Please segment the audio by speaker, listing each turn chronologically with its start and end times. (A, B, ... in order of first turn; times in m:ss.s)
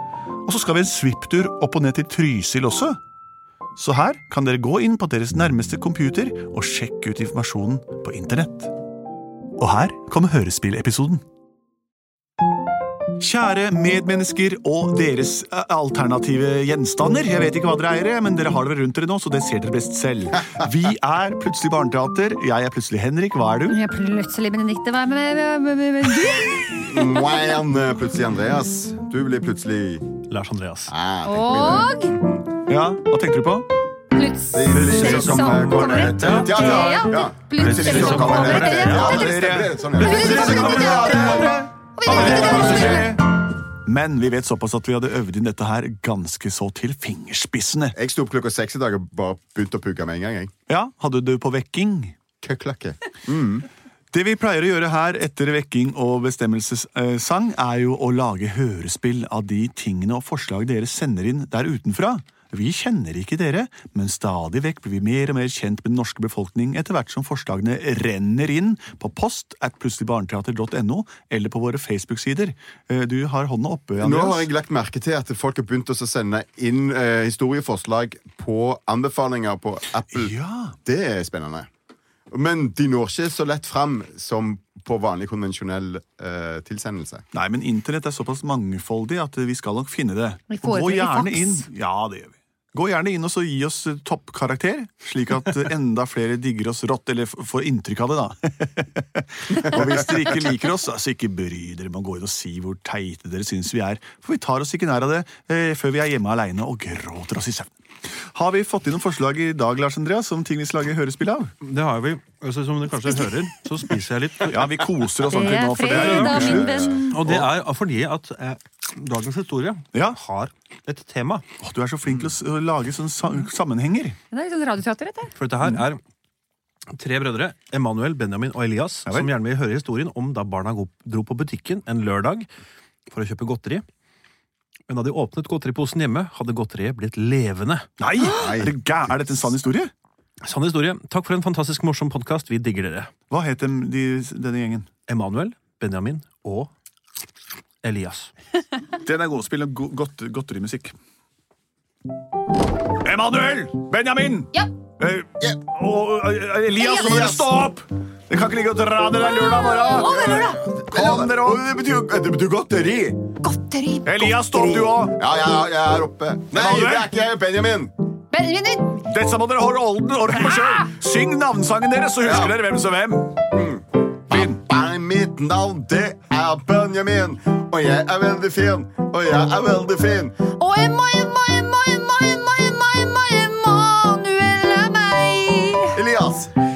0:00.4-0:03.0 A
0:03.8-0:08.7 A
0:09.6-0:11.2 A
0:13.2-0:23.8 A
0:23.6-0:27.3 B
0:26.6-0:30.1 C
0:30.3-0:30.9 D
0:30.9-0:32.4 C
0:31.2-0:32.1 B
0:32.7-0:33.7 A
0:34.1-0:43.1 B
0:34.5-0:43.1 C
0:34.7-0:36.9 A
0:34.9-0:39.2 D
0:37.9-0:43.2 A
0:43.8-0:48.0 A
0:47.9-0:50.5 C
0:50.7-0:52.2 A
0:52.4-0:53.6 C
0:54.1-1:14.5 A
1:14.0-1:20.3 C
1:20.1-1:20.8 A
1:20.8-1:21.7 C
1:22.3-1:27.2 C
1:27.3-1:47.7 A
1:30.5-1:31.6 B
1:48.2-1:51.5 A
1:51.6-1:54.7 D
1:54.5-1:57.5 A
1:55.2-1:57.2 B
1:55.4-2:01.4 D
1:56.6-1:56.9 C
1:59.9-2:00.2 A
2:01.6-2:04.2 A
2:04.3-2:05.3 B
2:05.4-2:06.0 D
2:06.9-2:12.5 D
2:13.1-2:13.8 D
2:14.9-2:17.9 D
2:18.0-2:19.9 A
2:18.2-2:18.7 C
2:20.4-2:23.1 D
2:23.3-2:24.9 A
2:25.1-2:26.7 D
2:27.8-2:28.3 D
2:28.9-2:30.9 A
2:33.0-2:41.6 A
2:36.8-2:37.3 B
2:37.1-2:37.5 C
2:39.2-2:40.6 B
2:39.9-2:43.2 C
2:43.4-2:44.3 B
2:44.0-2:45.2 A
2:44.4-2:47.9 C
2:46.5-2:47.1 A
2:48.3-2:49.0 B
2:49.0-2:53.4 A
2:50.3-2:50.8 B
2:52.2-2:52.5 C
2:53.5-3:00.3 C
2:54.3-2:54.6 A
3:00.6-3:06.0 B
3:05.9-3:06.5 C